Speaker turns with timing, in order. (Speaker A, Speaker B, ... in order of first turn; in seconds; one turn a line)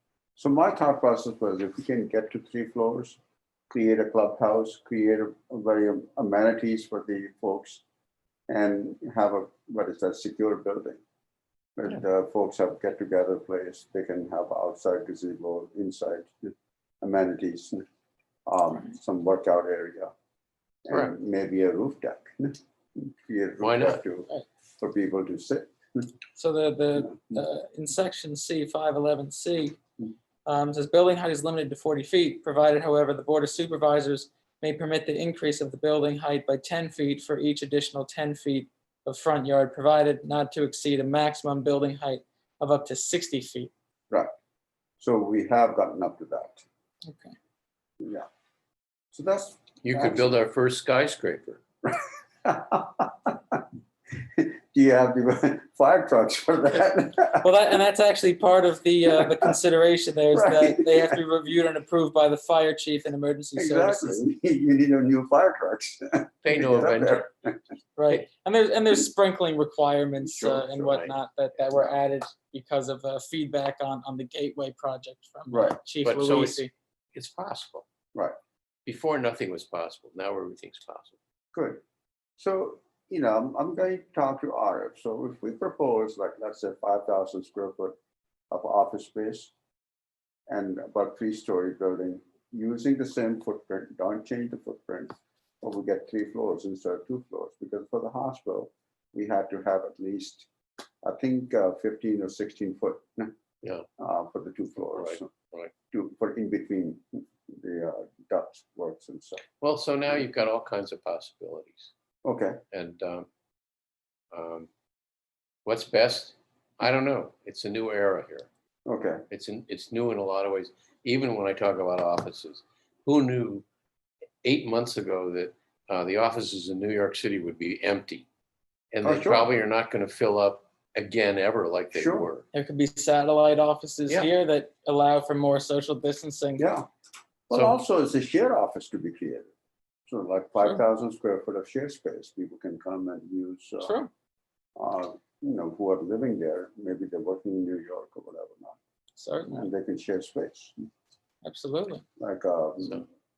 Speaker A: 0.4-3.2
Speaker A: 3.7-7.8
Speaker A: 8.5-11.0
Speaker A: 11.8-17.8
Speaker A: 18.4-20.1
Speaker A: 20.8-26.1
Speaker B: 23.6-24.0
Speaker C: 26.4-29.8
Speaker C: 30.4-43.7
Speaker A: 45.0-46.6
Speaker C: 47.1-47.3
Speaker A: 48.0-48.3
Speaker A: 49.1-50.3
Speaker B: 49.8-51.6
Speaker A: 51.8-53.6
Speaker A: 54.2-57.5
Speaker C: 57.4-64.2
Speaker A: 60.3-61.2
Speaker A: 63.5-67.6
Speaker B: 66.4-67.3
Speaker C: 68.0-76.7
Speaker A: 70.2-71.1
Speaker A: 75.5-75.8
Speaker B: 76.0-77.8
Speaker B: 78.8-81.2
Speaker A: 81.5-81.8
Speaker A: 82.4-87.9
Speaker A: 88.5-89.5
Speaker A: 90.5-100.5
Speaker A: 101.0-103.3
Speaker B: 103.6-103.9
Speaker A: 104.0-105.3
Speaker B: 105.0-105.7
Speaker A: 105.9-109.4
Speaker B: 109.6-111.9
Speaker A: 112.2-112.6
Speaker B: 112.7-113.3
Speaker B: 114.3-114.7
Speaker B: 115.6-118.5
Speaker A: 118.8-119.2
Speaker B: 119.3-123.7
Speaker B: 124.4-128.2
Speaker B: 128.9-132.4
Speaker A: 129.0-129.5
Speaker A: 131.9-132.3
Speaker C: 132.5-136.7
Speaker A: 136.6-136.9
Speaker A: 137.5-139.5
Speaker B: 137.5-137.8
Speaker A: 140.1-143.9
Speaker C: 143.8-144.1
Speaker A: 144.8-148.8
Speaker C: 149.2-149.7
Speaker A: 149.4-150.7
Speaker C: 151.4-152.0
Speaker A: 152.2-153.1